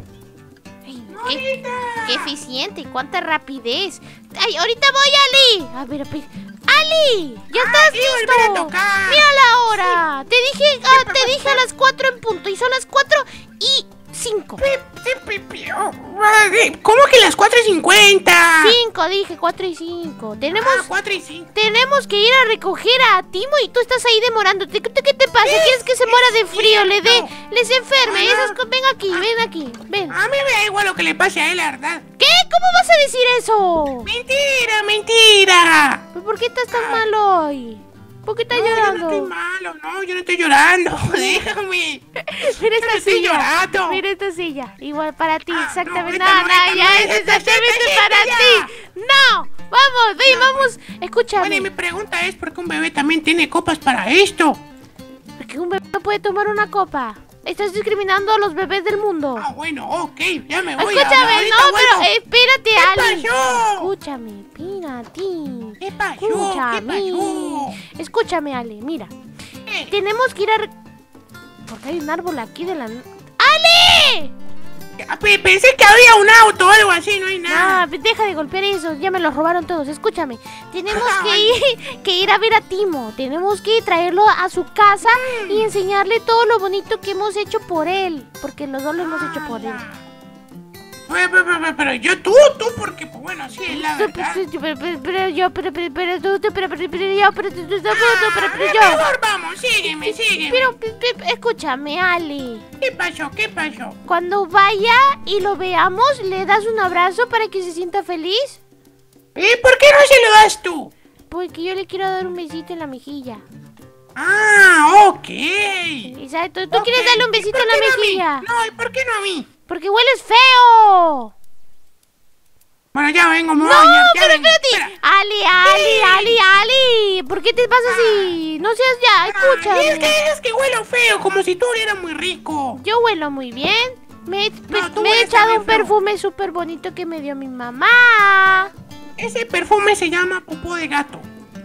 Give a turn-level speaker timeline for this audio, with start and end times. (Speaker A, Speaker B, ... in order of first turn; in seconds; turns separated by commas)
Speaker A: 0.8-1.4, Speaker B: 1.1-2.3, Speaker A: 2.0-14.6, Speaker B: 7.5-10.0, Speaker B: 10.9-11.6, Speaker B: 14.6-18.8, Speaker A: 18.6-20.9, Speaker B: 20.5-21.5, Speaker A: 21.5-30.2, Speaker B: 25.4-27.3, Speaker B: 28.1-28.6, Speaker B: 30.1-32.0, Speaker A: 32.2-34.1, Speaker B: 34.0-36.0, Speaker A: 36.1-39.3, Speaker B: 36.7-37.1, Speaker B: 38.5-42.0, Speaker A: 42.2-51.7, Speaker B: 42.8-44.0, Speaker B: 45.5-48.7, Speaker B: 50.3-50.7, Speaker B: 51.4-54.6, Speaker A: 55.4-59.5, Speaker B: 59.4-62.1, Speaker A: 60.8-69.1, Speaker B: 62.8-63.9, Speaker B: 65.8-67.8, Speaker B: 69.7-69.9, Speaker A: 69.9-70.7, Speaker A: 71.7-74.3, Speaker B: 75.0-77.8, Speaker A: 77.5-89.8, Speaker B: 80.9-81.5, Speaker B: 85.1-85.7, Speaker B: 89.0-90.0, Speaker B: 91.1-94.4, Speaker A: 93.7-99.0, Speaker B: 97.9-100.7, Speaker A: 99.9-102.6, Speaker B: 102.8-104.0, Speaker A: 104.0-108.6, Speaker B: 109.3-110.9, Speaker A: 111.3-113.4, Speaker B: 114.2-116.1, Speaker A: 116.0-118.5, Speaker B: 116.7-119.5, Speaker A: 119.7-121.3, Speaker B: 122.9-124.9, Speaker A: 123.6-130.2, Speaker B: 125.6-126.4, Speaker B: 127.8-128.4, Speaker B: 129.3-132.8, Speaker A: 132.7-138.7, Speaker B: 134.7-135.9, Speaker B: 139.2-141.3